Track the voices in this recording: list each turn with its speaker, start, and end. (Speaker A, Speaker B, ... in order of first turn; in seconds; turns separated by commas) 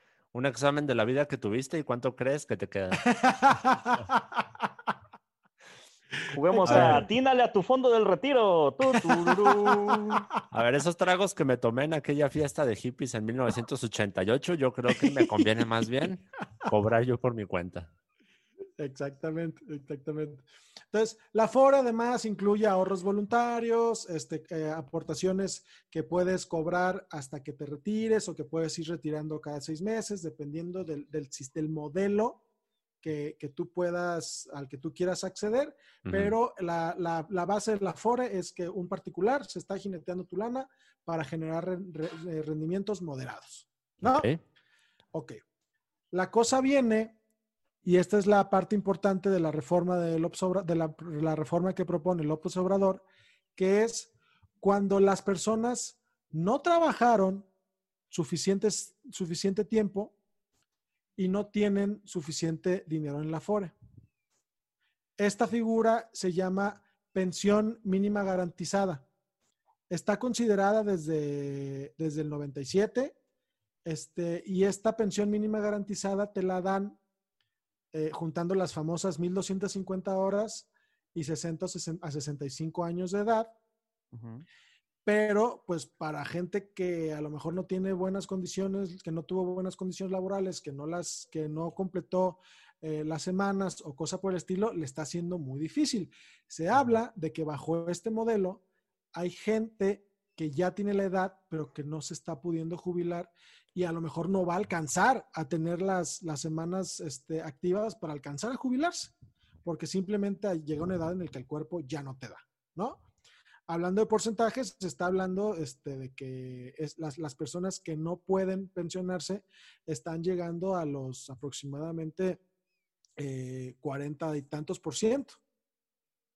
Speaker A: 0.3-3.0, Speaker B: 3.0-4.2, Speaker C: 6.3-10.3, Speaker B: 6.5-7.0, Speaker A: 6.7-7.0, Speaker B: 9.2-10.3, Speaker A: 10.5-17.9, Speaker B: 15.0-15.4, Speaker B: 18.8-32.4, Speaker B: 33.0-44.3, Speaker A: 36.0-36.3, Speaker A: 44.0-44.4, Speaker B: 46.1-47.1, Speaker B: 47.8-53.0, Speaker B: 53.5-57.5, Speaker B: 58.1-60.1, Speaker B: 61.2-63.7, Speaker B: 65.2-69.0, Speaker B: 69.9-73.1, Speaker B: 73.8-77.0, Speaker B: 77.9-83.5, Speaker C: 84.1-84.4, Speaker B: 85.0-98.6, Speaker B: 99.1-109.1, Speaker B: 109.6-113.0, Speaker B: 113.7-122.4, Speaker B: 123.2-125.4